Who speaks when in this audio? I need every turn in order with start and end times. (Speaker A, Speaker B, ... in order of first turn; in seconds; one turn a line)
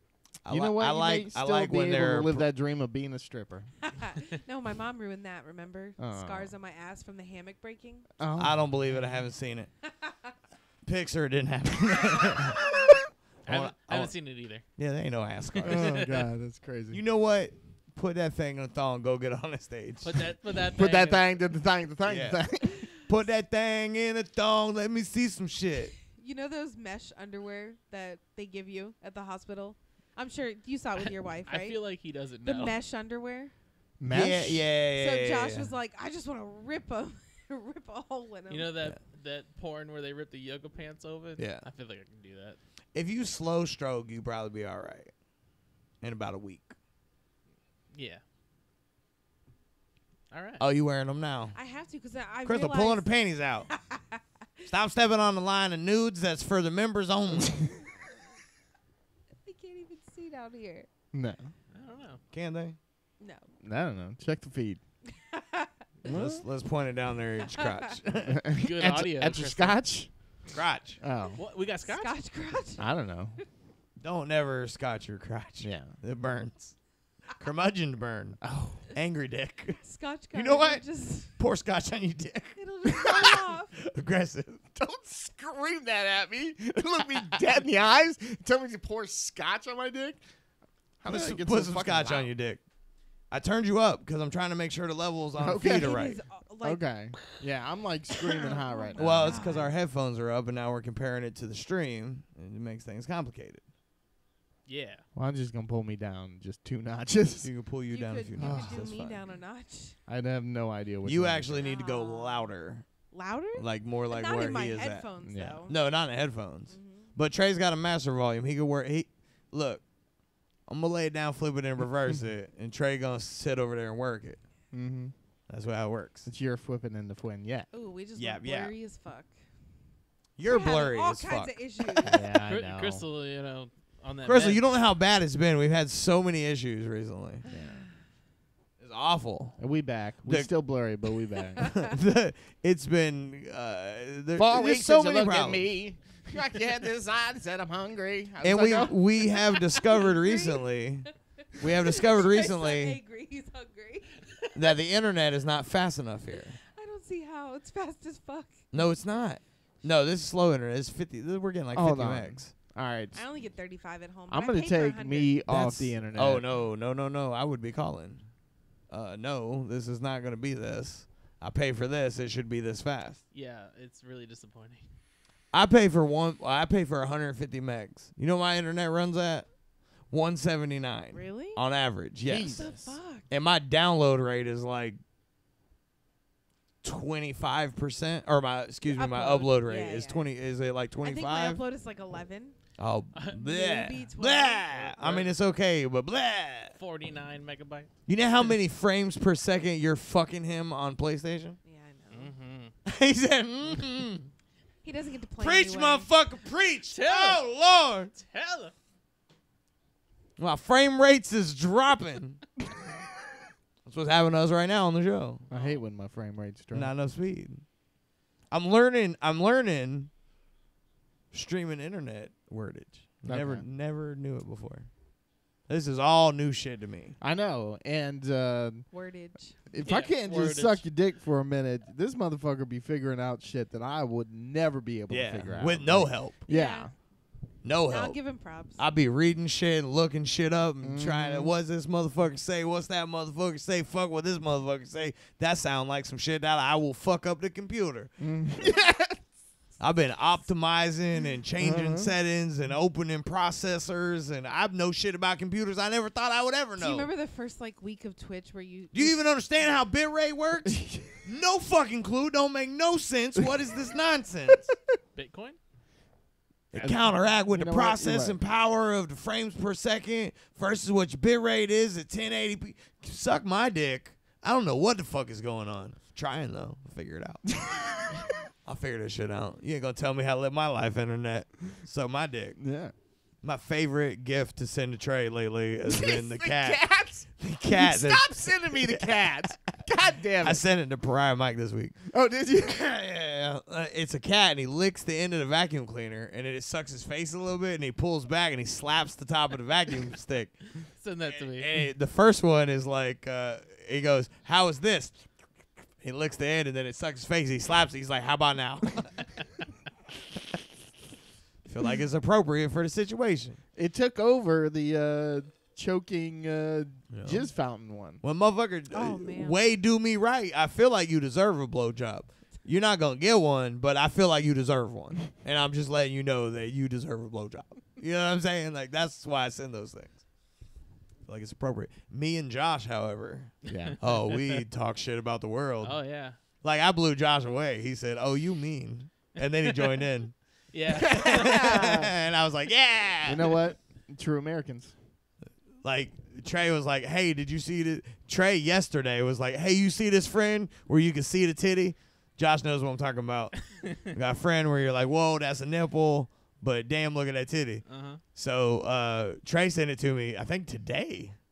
Speaker A: 0.4-2.5
Speaker B: 0.5-3.7
Speaker C: 3.9-8.1
Speaker B: 6.0-6.5
Speaker B: 8.2-8.7
Speaker A: 8.4-9.7
Speaker A: 10.8-16.2
Speaker D: 13.4-14.7
Speaker D: 15.6-16.0
Speaker B: 15.6-17.0
Speaker A: 16.9-20.2
Speaker D: 20.0-21.4
Speaker B: 20.7-22.9
Speaker A: 22.0-25.9
Speaker C: 26.1-33.5
Speaker D: 31.0-32.8
Speaker B: 34.0-34.7
Speaker A: 34.1-35.7
Speaker C: 34.9-38.8
Speaker D: 38.5-42.6
Speaker A: 41.4-41.6
Speaker A: 42.9-45.1
Speaker A: 46.0-46.7
Speaker D: 47.9-48.2
Speaker D: 50.3-50.6
Speaker A: 50.6-51.6
Speaker C: 51.5-54.2
Speaker A: 52.4-53.7
Speaker A: 54.7-57.7
Speaker C: 59.4-60.9
Speaker B: 61.1-61.5
Speaker D: 61.7-62.2
Speaker A: 62.3-62.8
Speaker C: 63.2-63.5
Speaker B: 63.6-64.8
Speaker C: 65.3-65.7
Speaker B: 66.0-66.4
Speaker A: 66.0-68.5
Speaker B: 68.3-70.4
Speaker D: 68.5-70.0
Speaker A: 70.5-71.0
Speaker B: 71.0-71.4
Speaker D: 71.3-72.2
Speaker C: 71.8-72.9
Speaker B: 72.8-73.4
Speaker A: 74.0-84.6
Speaker B: 75.6-76.0
Speaker B: 78.4-78.8
Speaker C: 79.8-81.3
Speaker C: 82.5-83.7
Speaker B: 84.7-90.2
Speaker B: 91.0-92.3
Speaker A: 91.0-92.6
Speaker A: 93.3-96.2
Speaker B: 95.4-96.0
Speaker C: 95.6-96.8
Speaker B: 96.6-99.4
Speaker C: 98.6-99.7
Speaker A: 99.0-103.7
Speaker D: 104.7-105.0
Speaker B: 105.1-107.5
Speaker A: 107.4-109.2
Speaker C: 107.9-110.0
Speaker B: 108.4-108.8
Speaker B: 110.1-111.6
Speaker A: 111.0-115.1
Speaker C: 111.5-112.5
Speaker C: 113.1-115.8
Speaker B: 115.2-115.6
Speaker A: 115.7-119.9
Speaker C: 116.7-117.1
Speaker A: 120.6-124.4
Speaker B: 124.7-125.1
Speaker A: 125.5-126.3
Speaker B: 126.2-127.7
Speaker C: 127.7-129.4
Speaker A: 128.2-128.7
Speaker A: 130.3-132.0
Speaker C: 130.4-132.2
Speaker B: 132.0-133.1
Speaker D: 132.5-134.6
Speaker A: 134.2-137.4
Speaker B: 137.5-137.8
Speaker A: 138.8-139.7
Speaker B: 139.6-141.8
Speaker A: 140.2-140.5
Speaker A: 141.6-145.7
Speaker B: 144.3-149.0
Speaker A: 148.4-153.0
Speaker C: 149.9-150.8
Speaker C: 151.6-154.5
Speaker A: 154.5-156.6
Speaker C: 156.7-158.7
Speaker A: 158.7-162.5
Speaker B: 161.7-163.5
Speaker C: 163.1-165.4
Speaker B: 164.3-166.4
Speaker A: 165.5-168.3
Speaker A: 168.9-173.2
Speaker D: 173.3-174.9
Speaker A: 175.5-185.0
Speaker C: 181.1-181.6
Speaker B: 182.2-183.0
Speaker C: 182.6-183.3
Speaker A: 186.8-191.6
Speaker C: 188.9-190.3
Speaker C: 191.0-192.6
Speaker A: 192.8-196.8
Speaker D: 193.1-193.5
Speaker C: 193.4-194.7
Speaker D: 194.7-195.3
Speaker D: 196.7-198.5
Speaker A: 198.1-201.6
Speaker C: 201.6-202.3
Speaker D: 202.1-202.8
Speaker A: 202.8-204.3
Speaker C: 204.8-206.1
Speaker A: 205.4-208.1
Speaker D: 206.9-207.4
Speaker D: 208.1-208.7
Speaker A: 210.4-212.4
Speaker A: 213.8-215.4
Speaker B: 215.5-216.9
Speaker D: 215.5-215.8
Speaker A: 216.7-217.6
Speaker A: 218.5-220.1
Speaker A: 221.3-224.9
Speaker B: 223.2-223.6
Speaker A: 225.7-227.2
Speaker B: 227.2-228.9
Speaker C: 228.9-229.6
Speaker B: 229.6-236.9
Speaker D: 229.8-230.8
Speaker A: 235.1-236.4
Speaker C: 236.5-237.0
Speaker A: 237.6-248.8
Speaker C: 237.9-238.8
Speaker B: 240.8-241.5
Speaker B: 248.2-249.2
Speaker A: 249.8-257.1
Speaker B: 251.6-252.1
Speaker C: 256.8-259.2
Speaker A: 258.9-264.7
Speaker B: 260.7-261.2
Speaker D: 265.1-265.6
Speaker A: 266.7-277.6
Speaker D: 266.7-267.1
Speaker B: 267.5-268.4
Speaker B: 277.6-278.2
Speaker A: 278.6-282.6
Speaker B: 282.6-282.9
Speaker A: 283.4-289.8
Speaker B: 285.9-290.6
Speaker A: 290.4-292.0
Speaker B: 292.1-292.8
Speaker A: 292.7-305.2
Speaker D: 301.0-301.7
Speaker A: 306.0-309.4
Speaker A: 311.6-313.6
Speaker B: 313.7-318.2
Speaker A: 317.1-330.3
Speaker C: 318.9-319.6
Speaker A: 331.2-343.7
Speaker B: 333.7-334.0
Speaker D: 333.7-334.4
Speaker D: 335.8-336.4
Speaker D: 339.6-339.9
Speaker D: 340.7-341.7
Speaker B: 341.1-342.1
Speaker B: 343.2-344.9
Speaker A: 345.8-361.4
Speaker D: 357.9-358.2